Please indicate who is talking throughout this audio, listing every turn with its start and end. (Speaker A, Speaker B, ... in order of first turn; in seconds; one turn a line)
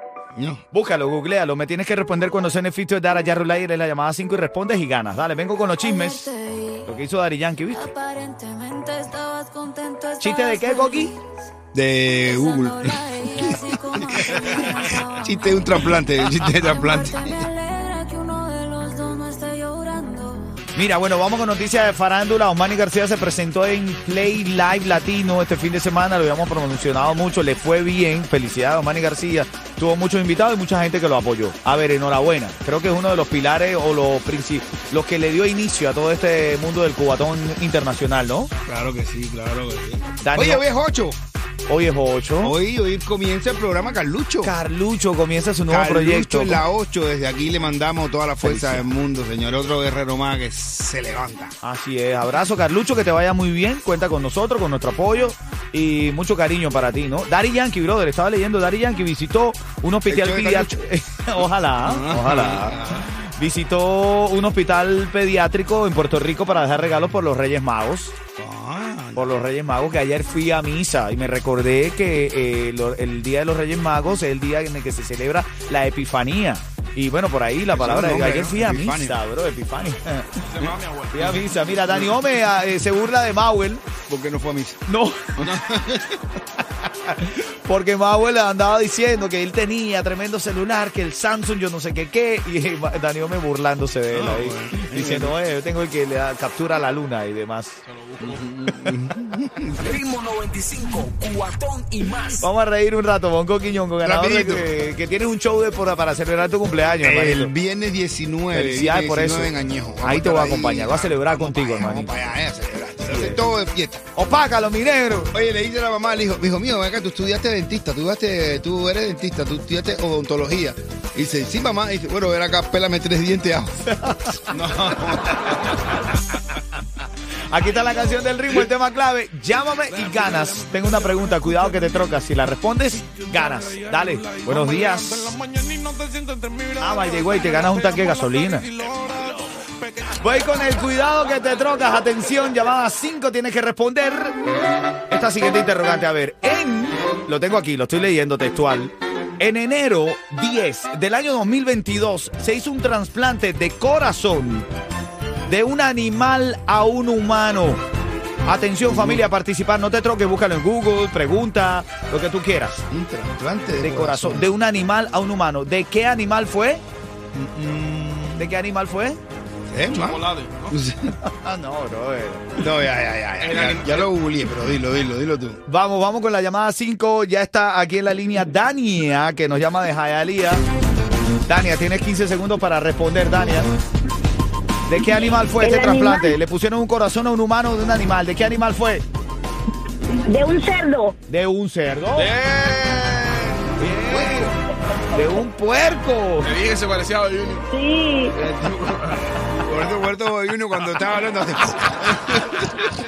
Speaker A: 0.3-0.6
Speaker B: 0.7-6.3
Speaker C: 6.0-6.9
Speaker B: 6.8-7.9
Speaker C: 7.8-11.2
Speaker B: 10.2-11.2
Speaker A: 11.7-17.4
Speaker C: 12.2-20.6
Speaker B: 20.8-38.5
Speaker A: 38.6-41.2
Speaker B: 40.2-40.6
Speaker B: 41.7-42.6
Speaker A: 42.4-44.5
Speaker B: 44.4-46.6
Speaker A: 45.7-51.5
Speaker B: 48.4-48.8
Speaker B: 51.6-68.2
Speaker A: 60.1-60.8
Speaker A: 61.8-63.1
Speaker A: 68.4-69.3
Speaker B: 69.2-80.4
Speaker A: 77.7-79.2
Speaker D: 80.4-81.4
Speaker B: 81.1-83.8
Speaker A: 84.1-84.8
Speaker B: 84.9-85.5
Speaker A: 85.4-86.0
Speaker D: 85.7-86.1
Speaker B: 87.0-97.8
Speaker A: 94.1-95.4
Speaker D: 97.8-98.4
Speaker A: 98.2-100.0
Speaker E: 99.8-102.4
Speaker B: 102.4-107.5
Speaker A: 104.0-104.7
Speaker A: 107.0-114.0
Speaker B: 108.5-112.2
Speaker B: 113.0-113.4
Speaker B: 114.2-115.3
Speaker A: 115.3-123.8
Speaker B: 123.9-124.5
Speaker A: 124.5-125.8
Speaker B: 127.5-135.3
Speaker D: 134.5-140.0
Speaker B: 136.8-138.7
Speaker B: 140.1-144.4
Speaker B: 145.1-154.7
Speaker B: 155.5-157.8
Speaker B: 158.5-162.8
Speaker A: 158.9-159.2
Speaker A: 162.9-164.5
Speaker B: 163.8-166.8
Speaker A: 167.3-168.5
Speaker B: 168.4-169.2
Speaker A: 169.7-171.2
Speaker D: 169.9-170.8
Speaker B: 171.2-172.7
Speaker A: 172.6-175.6
Speaker D: 173.4-174.1
Speaker B: 175.7-180.6
Speaker B: 181.5-183.7
Speaker B: 184.9-189.0
Speaker F: 185.6-186.3
Speaker F: 190.2-191.2
Speaker B: 191.3-192.3
Speaker D: 192.2-193.7
Speaker B: 193.8-196.5
Speaker A: 194.1-194.5
Speaker D: 196.4-197.7
Speaker F: 197.7-198.3
Speaker D: 198.4-199.2
Speaker A: 198.5-202.9